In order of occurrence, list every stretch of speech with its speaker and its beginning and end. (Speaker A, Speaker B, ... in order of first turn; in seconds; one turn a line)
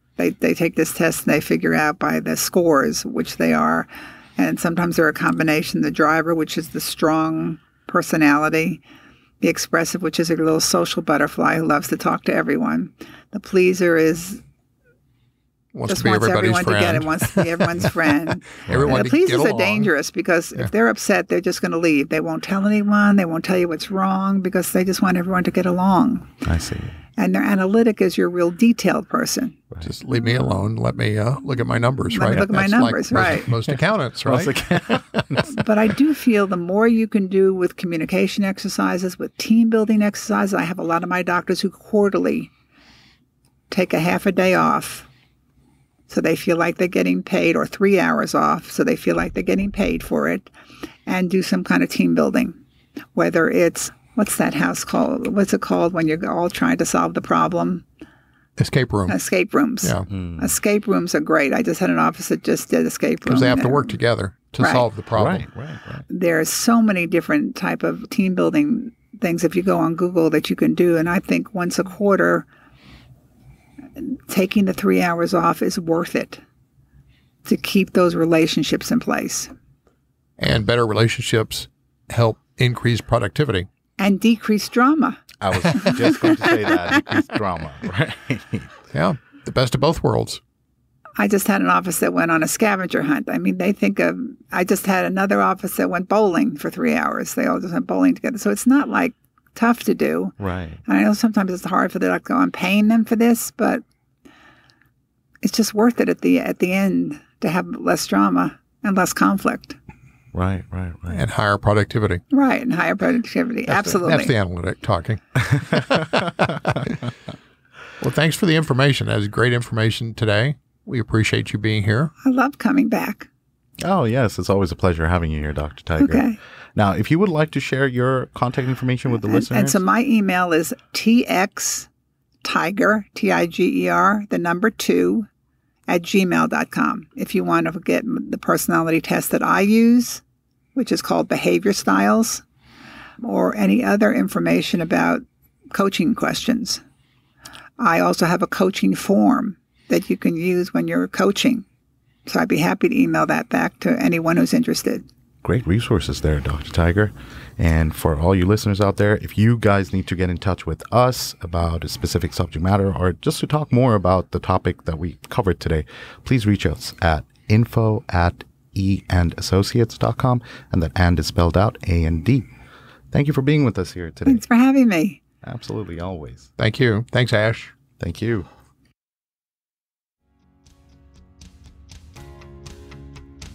Speaker A: 0.2-8.8
Speaker A: 9.4-14.4
Speaker B: 15.7-18.0
Speaker A: 15.9-26.3
Speaker B: 18.7-19.9
Speaker C: 18.7-19.1
Speaker C: 26.4-27.0
Speaker A: 27.2-29.6
Speaker B: 29.8-35.2
Speaker A: 32.1-33.5
Speaker C: 33.1-33.5
Speaker C: 34.2-35.6
Speaker A: 35.5-42.5
Speaker A: 43.7-45.1
Speaker A: 46.1-50.5
Speaker A: 51.1-52.6
Speaker A: 53.1-57.8
Speaker B: 58.6-59.2
Speaker A: 59.1-64.0
Speaker B: 59.8-60.1
Speaker C: 60.1-60.5
Speaker B: 63.2-65.5
Speaker A: 64.6-64.8
Speaker C: 65.1-66.0
Speaker A: 66.1-72.5
Speaker A: 74.0-76.4
Speaker A: 77.5-79.5
Speaker B: 80.4-83.7
Speaker A: 84.0-85.2
Speaker C: 85.4-88.7
Speaker A: 85.7-86.7
Speaker B: 88.9-90.4
Speaker A: 91.2-103.8
Speaker C: 100.4-100.8
Speaker A: 105.4-109.8
Speaker C: 110.3-111.3
Speaker B: 111.1-112.2
Speaker A: 112.3-114.3
Speaker B: 113.7-116.9
Speaker C: 115.4-117.1
Speaker B: 118.0-122.1
Speaker A: 122.2-123.3
Speaker C: 123.8-129.8
Speaker A: 126.0-126.4
Speaker A: 129.2-131.9
Speaker A: 132.4-135.3
Speaker A: 135.9-140.2
Speaker A: 140.8-142.4
Speaker A: 143.2-146.8
Speaker A: 147.8-151.7
Speaker A: 152.3-155.1
Speaker C: 155.4-172.5
Speaker C: 173.1-174.4
Speaker A: 174.3-175.2
Speaker C: 175.4-176.5
Speaker B: 176.6-177.7
Speaker C: 178.0-178.5